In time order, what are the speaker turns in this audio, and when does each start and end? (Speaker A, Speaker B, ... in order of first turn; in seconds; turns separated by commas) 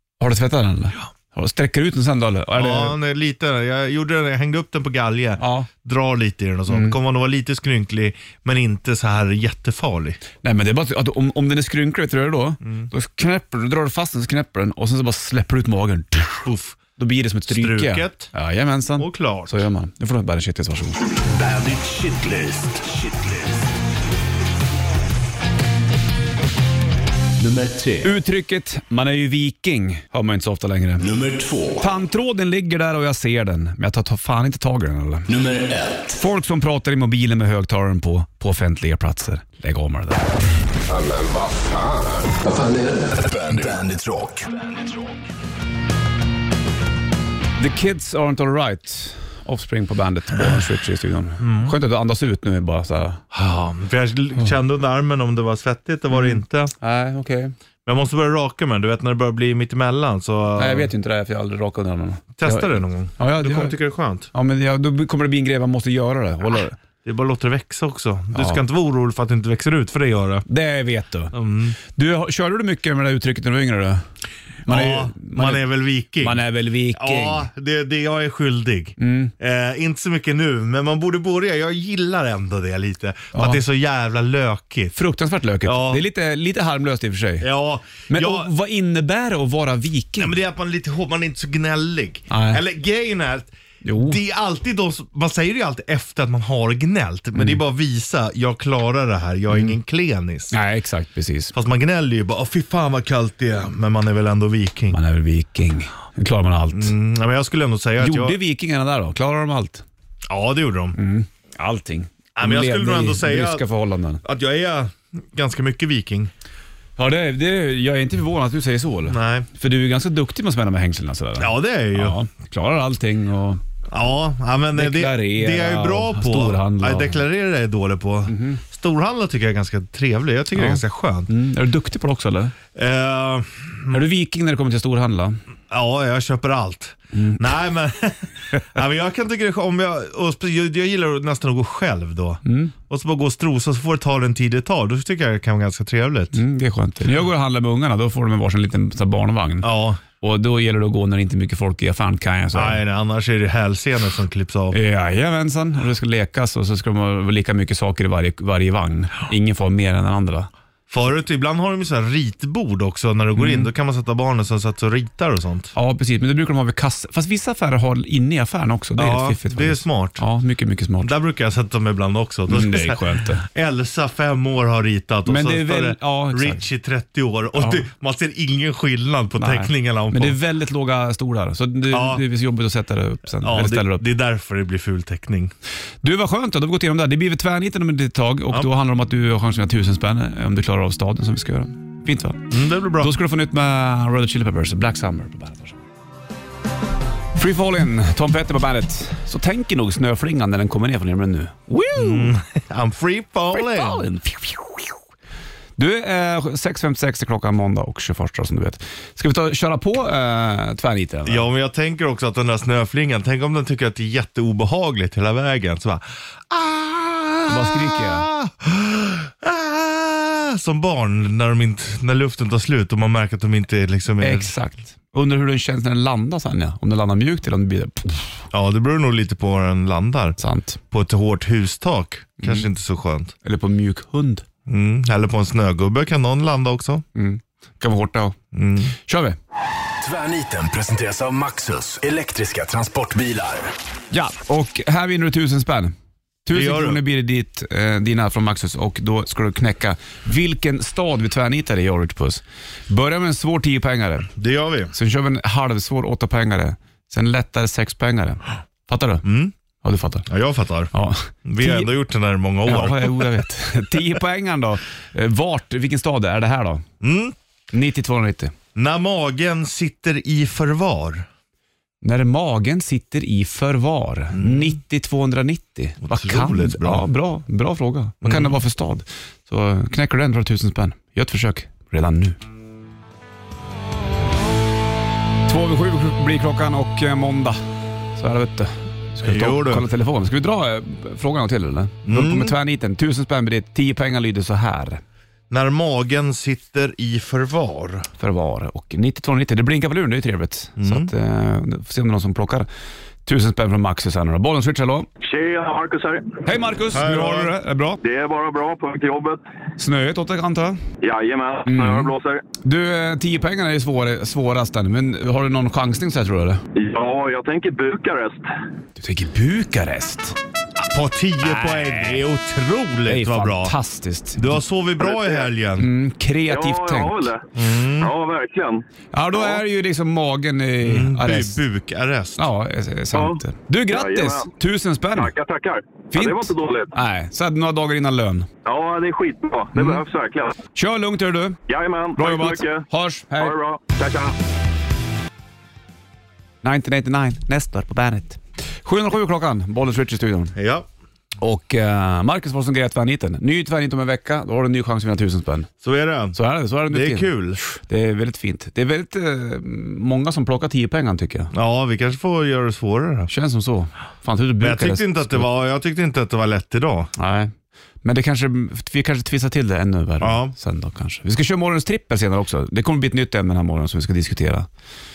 Speaker A: 0.2-3.0, Speaker B: 2.5-10.2, Speaker A: 5.4-5.7, Speaker A: 6.7-7.0, Speaker A: 10.4-21.0, Speaker B: 12.6-12.9, Speaker B: 16.4-16.8, Speaker B: 17.5-18.3, Speaker B: 19.0-19.6, Speaker C: 21.1-23.7, Speaker C: 27.4-28.1, Speaker A: 28.0-31.1, Speaker C: 31.0-31.9, Speaker A: 31.8-35.3, Speaker C: 35.3-36.2, Speaker A: 36.1-40.3, Speaker C: 40.9-45.0, Speaker A: 47.6-53.2, Speaker B: 51.4-51.8, Speaker B: 53.3-56.7, Speaker A: 56.1-57.5, Speaker B: 57.9-60.9, Speaker A: 60.6-63.8, Speaker B: 62.4-64.3, Speaker A: 64.3-66.8, Speaker B: 67.0-70.5, Speaker A: 68.3-68.6, Speaker A: 70.5-74.0, Speaker B: 71.3-71.8, Speaker A: 74.7-75.7, Speaker B: 74.7-76.4, Speaker A: 76.2-77.5, Speaker B: 76.9-85.0, Speaker A: 79.0-79.3, Speaker A: 83.3-83.6, Speaker A: 84.9-87.5, Speaker B: 85.7-86.0, Speaker B: 87.4-88.5, Speaker A: 88.1-90.3, Speaker B: 90.2-100.6, Speaker A: 92.3-92.6, Speaker A: 93.8-94.2, Speaker A: 100.5-101.5, Speaker B: 101.5-105.0, Speaker A: 104.9-106.9, Speaker B: 106.7-108.4, Speaker A: 108.0-109.8, Speaker B: 110.3-111.0, Speaker A: 111.0-114.2, Speaker B: 112.4-113.7, Speaker B: 114.2-116.3, Speaker A: 117.0-123.6, Speaker B: 119.1-119.5, Speaker B: 121.4-122.2, Speaker B: 123.9-131.3, Speaker A: 124.8-127.2, Speaker A: 128.3-128.6, Speaker A: 130.5-132.6, Speaker B: 132.7-134.0, Speaker A: 133.9-135.4, Speaker B: 135.7-146.4, Speaker A: 137.1-137.4, Speaker A: 142.4-142.7, Speaker A: 146.3-152.8, Speaker B: 149.6-150.0, Speaker B: 152.5-154.8, Speaker A: 154.7-160.5, Speaker B: 160.9-165.7, Speaker A: 163.4-163.7, Speaker A: 165.8-171.1, Speaker B: 169.0-170.2, Speaker B: 171.0-180.4, Speaker A: 172.5-173.5, Speaker A: 175.3-176.6, Speaker A: 177.6-177.8, Speaker A: 179.4-184.1, Speaker B: 181.9-182.2, Speaker B: 183.4-185.5, Speaker A: 186.0-195.8, Speaker B: 192.5-193.1, Speaker A: 197.4-202.3, Speaker B: 202.0-204.0, Speaker A: 203.5-205.0, Speaker A: 205.8-211.5, Speaker B: 211.3-224.5, Speaker A: 217.5-218.3, Speaker A: 224.2-228.4, Speaker B: 228.5-230.4, Speaker A: 230.4-230.8, Speaker B: 230.9-233.3, Speaker A: 233.4-234.4, Speaker B: 234.7-237.0, Speaker A: 237.2-238.4, Speaker B: 238.5-238.9, Speaker A: 239.0-239.4, Speaker C: 240.0-243.8, Speaker A: 244.1-245.9, Speaker A: 246.4-254.3, Speaker B: 246.5-247.0, Speaker B: 254.4-254.9, Speaker A: 254.9-259.2, Speaker B: 259.2-259.5, Speaker A: 259.8-260.3, Speaker B: 260.3-260.9, Speaker A: 260.9-261.9, Speaker B: 261.4-263.5, Speaker A: 262.7-266.9, Speaker B: 267.0-267.4, Speaker A: 267.7-268.5, Speaker B: 268.8-271.3, Speaker A: 272.0-282.4, Speaker B: 274.3-274.8, Speaker B: 276.0-277.1, Speaker B: 278.2-278.6, Speaker A: 285.5-287.6, Speaker A: 288.2-295.0, Speaker B: 289.2-289.9, Speaker B: 292.1-292.6, Speaker B: 295.5-298.1, Speaker A: 298.2-302.7, Speaker B: 300.8-301.1, Speaker A: 303.2-305.1, Speaker D: 305.2-306.4, Speaker A: 306.4-308.0, Speaker B: 306.9-307.5, Speaker D: 308.0-309.4, Speaker A: 309.8-310.8, Speaker D: 311.0-312.4, Speaker A: 311.7-312.1, Speaker A: 312.6-316.6, Speaker D: 316.7-318.4, Speaker A: 319.0-320.4, Speaker B: 320.8-323.7, Speaker A: 321.4-322.2, Speaker A: 323.1-324.6, Speaker B: 324.4-325.9, Speaker D: 325.0-325.5, Speaker A: 325.8-327.3, Speaker D: 326.5-328.8, Speaker B: 327.6-328.1, Speaker A: 329.1-331.6, Speaker B: 330.8-332.4, Speaker A: 332.4-335.3, Speaker D: 333.1-334.5, Speaker D: 335.1-336.9, Speaker A: 336.1-338.5, Speaker D: 338.7-340.6, Speaker A: 339.8-340.0, Speaker A: 340.8-341.6, Speaker D: 341.7-342.8, Speaker A: 342.2-343.5, Speaker D: 343.4-344.3, Speaker A: 346.6-350.6, Speaker B: 350.6-350.9, Speaker A: 351.4-355.7, Speaker B: 355.8-356.4, Speaker A: 356.3-361.5, Speaker B: 356.9-357.6, Speaker B: 361.5-363.3, Speaker A: 363.3-365.5, Speaker B: 364.6-367.1, Speaker A: 367.2-374.7, Speaker B: 370.2-370.5